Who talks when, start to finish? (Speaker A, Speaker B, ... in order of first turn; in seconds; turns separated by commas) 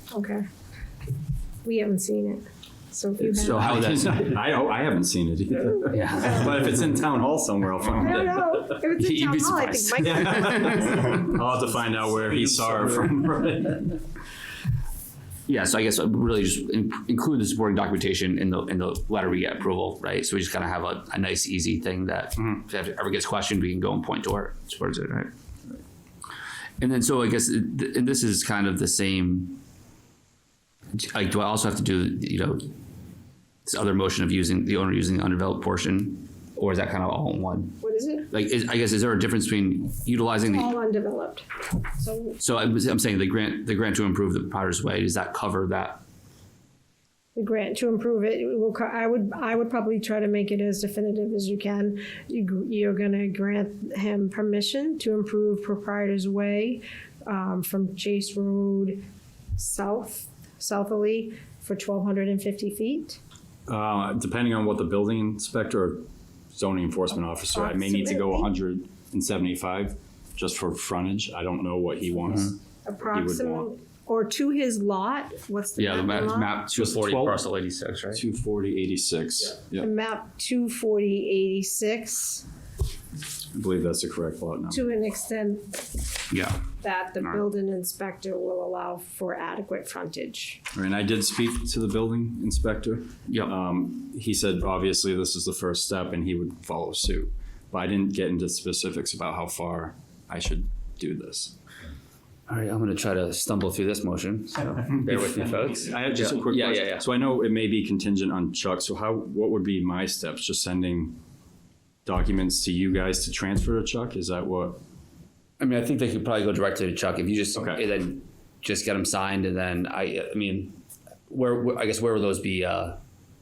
Speaker A: 0.1-0.4, Speaker A: 1.6-3.7, Speaker B: 3.2-4.4, Speaker C: 3.4-8.8, Speaker B: 5.9-6.4, Speaker A: 8.0-11.0, Speaker B: 9.0-11.4, Speaker C: 10.0-14.0, Speaker B: 15.5-25.3, Speaker B: 26.8-29.6, Speaker B: 31.0-32.7, Speaker B: 33.7-37.8, Speaker A: 37.8-38.3, Speaker B: 38.3-40.7, Speaker A: 40.5-41.5, Speaker A: 42.0-42.4, Speaker B: 42.4-46.0, Speaker A: 47.4-59.0, Speaker A: 59.6-63.2, Speaker C: 63.7-72.5, Speaker A: 67.5-68.5, Speaker A: 72.4-76.6, Speaker C: 73.1-73.7, Speaker B: 75.8-78.2, Speaker C: 76.7-77.4, Speaker C: 78.1-79.9, Speaker A: 79.8-82.5, Speaker C: 83.5-84.9, Speaker A: 84.7-85.8, Speaker B: 86.3-86.6, Speaker A: 86.8-90.6, Speaker C: 90.7-101.5, Speaker B: 102.5-107.0, Speaker C: 104.9-111.2, Speaker C: 112.1-114.8, Speaker B: 115.6-120.8, Speaker C: 117.5-117.8, Speaker B: 121.3-123.0